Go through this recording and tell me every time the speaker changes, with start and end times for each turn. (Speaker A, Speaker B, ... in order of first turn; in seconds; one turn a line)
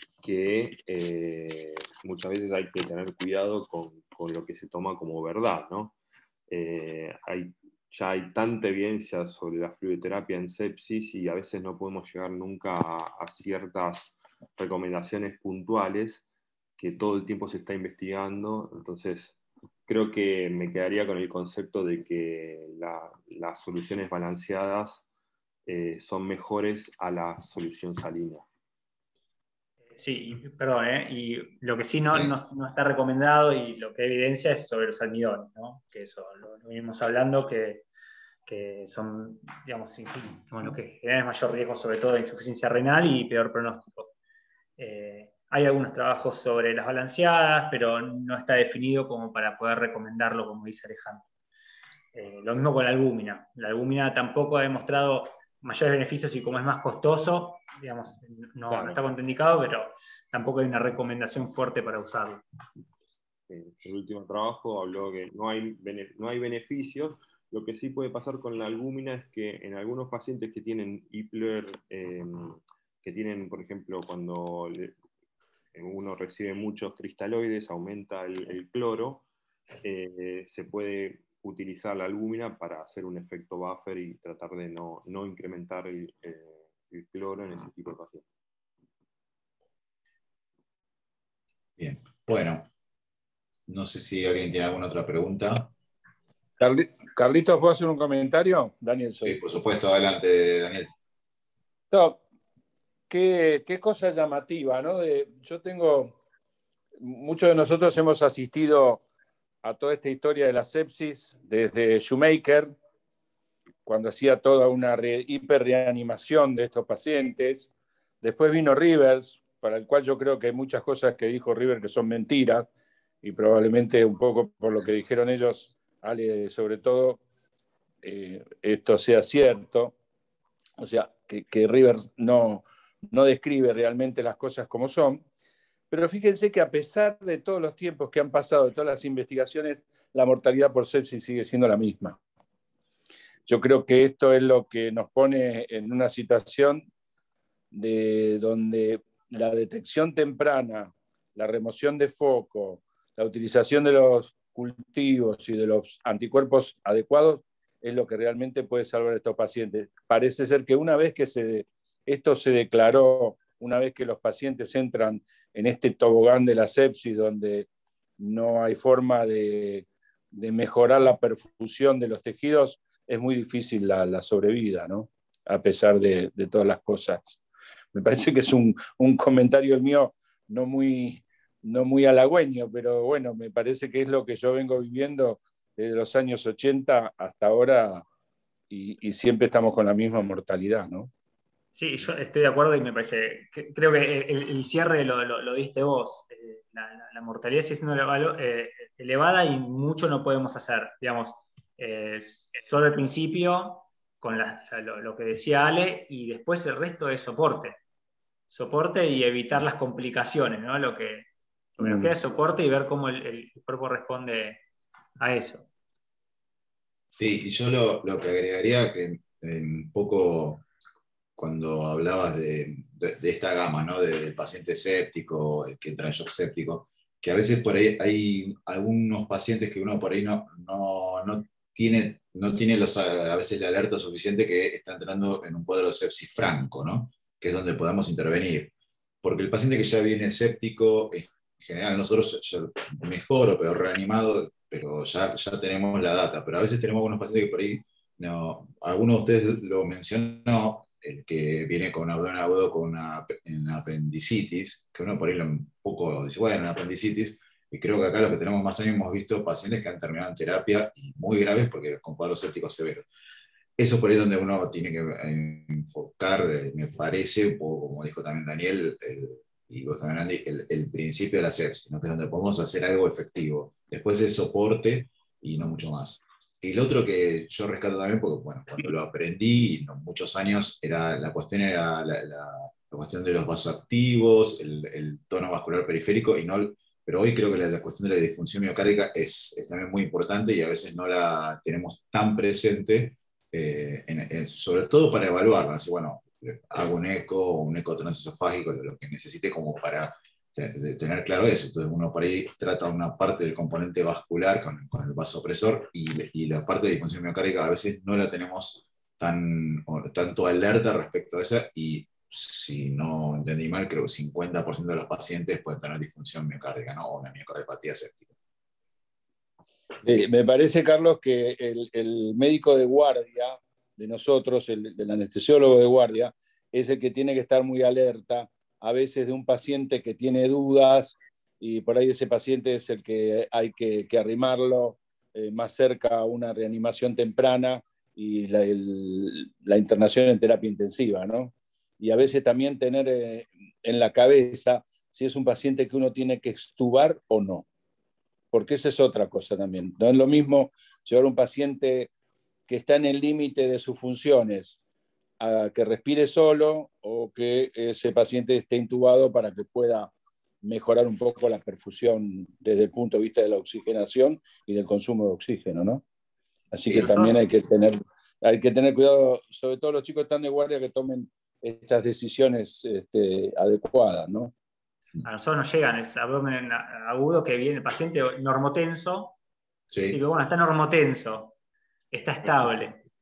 Speaker A: 0.2-6.0
Speaker A: 6.5-16.2
Speaker A: 16.8-25.1
Speaker A: 25.7-28.5
Speaker B: 30.0-37.9
Speaker B: 38.5-44.1
Speaker B: 44.8-51.3
Speaker B: 52.1-62.4
Speaker A: 58.7-59.0
Speaker A: 63.5-75.0
Speaker A: 75.7-79.3
Speaker A: 79.8-88.3
Speaker C: 91.8-92.7
Speaker C: 93.7-95.7
Speaker D: 96.6-99.4
Speaker C: 99.2-100.9
Speaker D: 101.9-102.2
Speaker D: 103.1-106.2
Speaker D: 107.0-109.0
Speaker D: 109.6-112.8
Speaker D: 113.8-122.7
Speaker D: 123.2-127.2
Speaker D: 128.0-129.9
Speaker D: 130.8-135.2
Speaker D: 135.9-142.2
Speaker D: 143.5-146.9
Speaker D: 147.7-167.7
Speaker D: 168.2-177.4
Speaker D: 177.9-188.1
Speaker D: 188.7-191.1
Speaker B: 191.8-207.8
Speaker B: 208.5-211.3
Speaker D: 211.8-212.1
Speaker B: 211.8-214.6
Speaker B: 215.2-215.7
Speaker C: 217.2-220.7
Speaker C: 221.4-238.7
Speaker C: 239.2-263.1
Speaker C: 263.8-318.3
Speaker D: 320.0-347.7
Speaker D: 348.5-352.1
Speaker D: 352.7-354.8
Speaker D: 355.4-360.1
Speaker D: 360.6-366.0
Speaker D: 366.7-374.6
Speaker B: 366.9-367.4
Speaker B: 375.2-379.4
Speaker C: 379.9-380.2
Speaker B: 380.1-381.5
Speaker B: 382.1-383.0